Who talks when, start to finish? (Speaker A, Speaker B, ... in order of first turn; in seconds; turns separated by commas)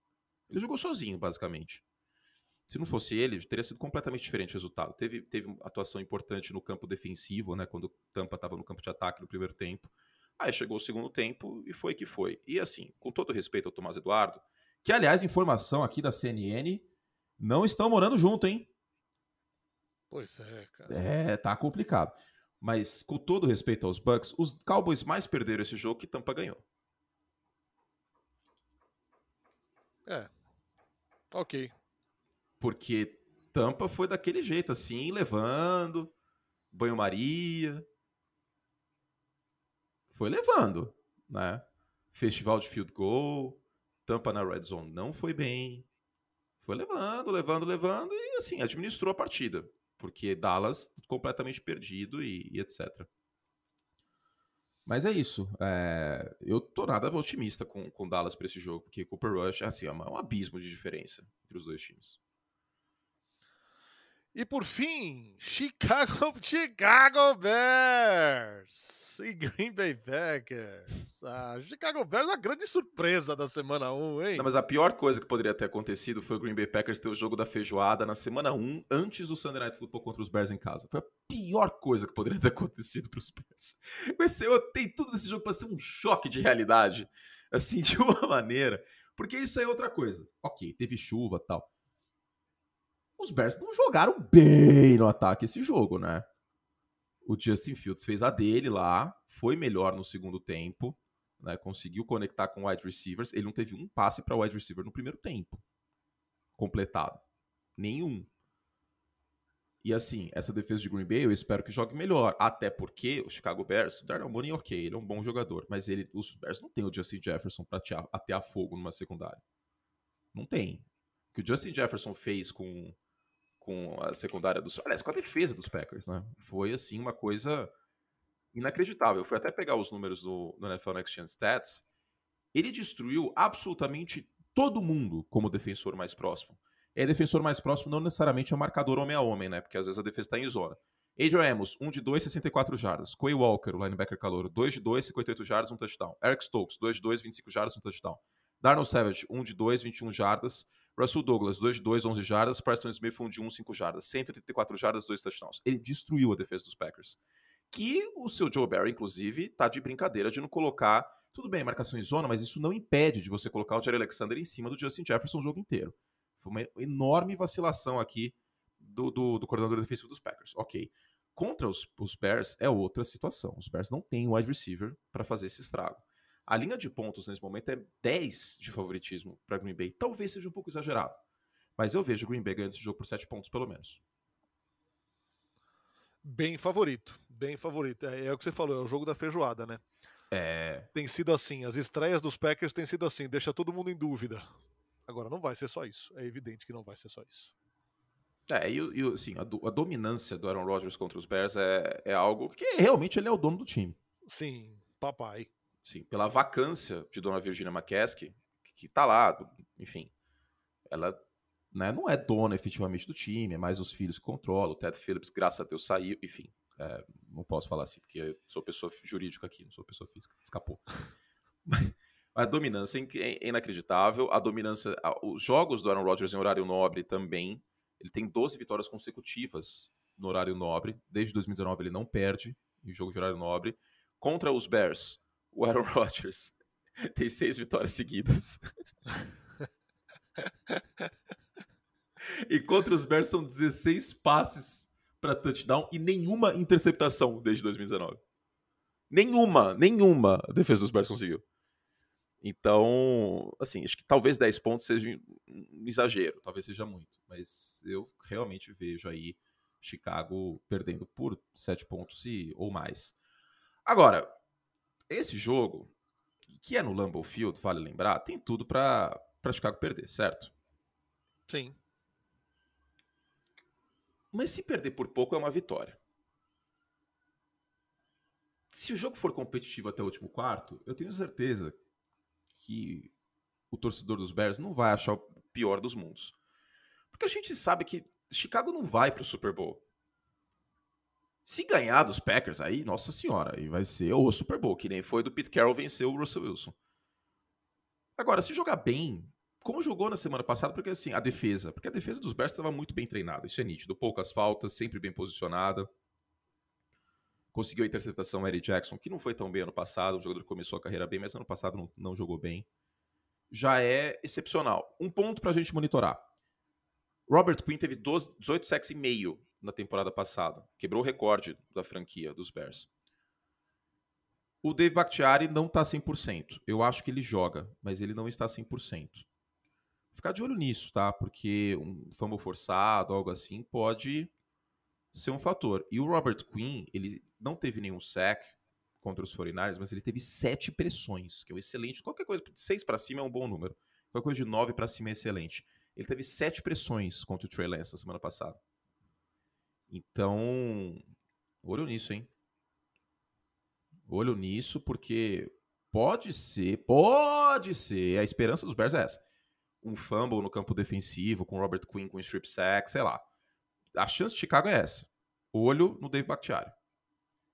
Speaker A: 0.5-1.8, Speaker A: 2.7-16.8, Speaker A: 17.4-18.7, Speaker B: 20.1-21.0, Speaker A: 20.9-26.6, Speaker B: 30.1-30.3, Speaker B: 31.3-31.7, Speaker A: 32.6-36.1, Speaker A: 36.7-37.8, Speaker A: 40.1-45.9, Speaker A: 46.6-53.1, Speaker A: 54.9-62.2, Speaker B: 64.3-74.5, Speaker A: 74.3-91.7, Speaker A: 93.2-96.3, Speaker A: 97.2-105.6, Speaker A: 106.6-107.2, Speaker A: 107.8-108.3, Speaker A: 109.8-119.4, Speaker A: 120.3-123.0, Speaker A: 123.6-127.7, Speaker A: 128.5-131.8, Speaker A: 132.5-157.2, Speaker A: 157.7-181.2, Speaker A: 181.8-184.0, Speaker B: 186.2-189.8, Speaker A: 190.3-190.9, Speaker B: 190.9-194.4, Speaker B: 195.1-197.5, Speaker A: 198.5-204.0, Speaker B: 204.3-205.5, Speaker A: 205.8-210.1, Speaker A: 210.8-211.2, Speaker A: 211.7-220.8, Speaker A: 221.6-238.6, Speaker A: 242.2-248.2, Speaker A: 249.1-251.4, Speaker A: 252.4-263.1, Speaker A: 263.9-264.3, Speaker A: 265.1-265.9, Speaker A: 266.5-270.5, Speaker B: 271.5-271.8, Speaker A: 274.3-276.0, Speaker A: 278.7-281.8, Speaker A: 282.6-283.1, Speaker A: 283.7-286.3, Speaker A: 287.1-289.8, Speaker A: 291.4-296.7, Speaker A: 298.1-305.9, Speaker A: 307.5-312.7, Speaker A: 313.5-316.2, Speaker A: 317.3-322.9, Speaker A: 324.6-329.2, Speaker A: 330.1-334.3, Speaker A: 335.1-348.6, Speaker A: 349.9-351.0, Speaker A: 351.6-352.3, Speaker A: 354.1-359.2, Speaker A: 359.8-363.2, Speaker A: 363.9-366.7